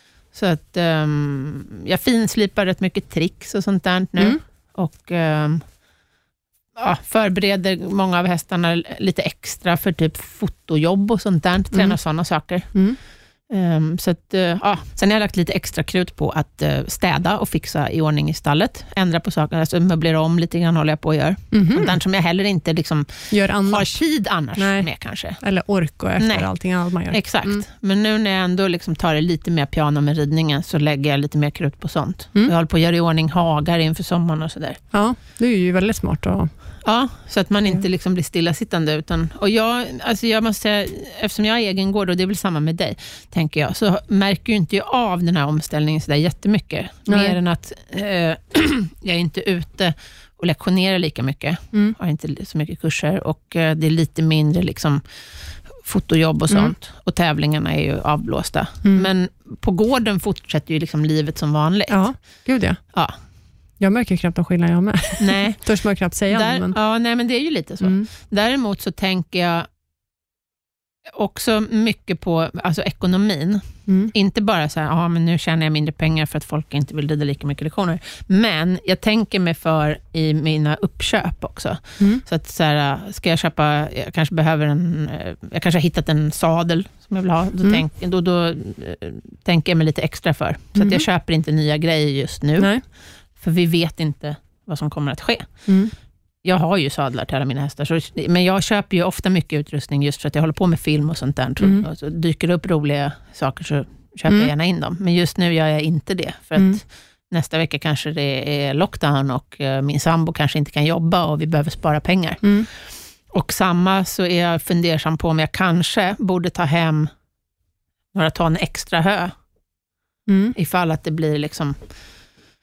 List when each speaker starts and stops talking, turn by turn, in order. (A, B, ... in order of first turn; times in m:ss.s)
0:00.3-0:05.6 A
0:06.7-0:12.7 A
0:13.5-0:25.4 A
0:21.5-0:21.9 B
0:23.3-0:24.0 B
0:24.6-0:24.9 B
0:25.4-0:27.6 B
0:26.2-0:26.5 A
0:27.1-0:34.8 A
0:34.9-0:36.5 B
0:36.8-0:55.0 A
0:47.1-0:47.4 B
0:55.8-1:02.0 A
0:56.5-0:56.7 B
0:58.8-0:59.1 B
1:01.9-1:02.8 B
1:03.8-1:06.8 B
1:05.2-1:05.6 A
1:06.3-1:09.7 A
1:07.8-1:08.1 B
1:11.1-1:32.7 A
1:13.9-1:14.1 B
1:30.8-1:31.0 B
1:33.4-1:35.5 A
1:35.7-1:35.9 B
1:36.4-1:52.4 A
1:52.4-1:52.7 B
1:53.3-1:57.1 A
1:58.1-1:59.3 A
2:00.3-2:00.5 B
2:00.5-2:01.8 A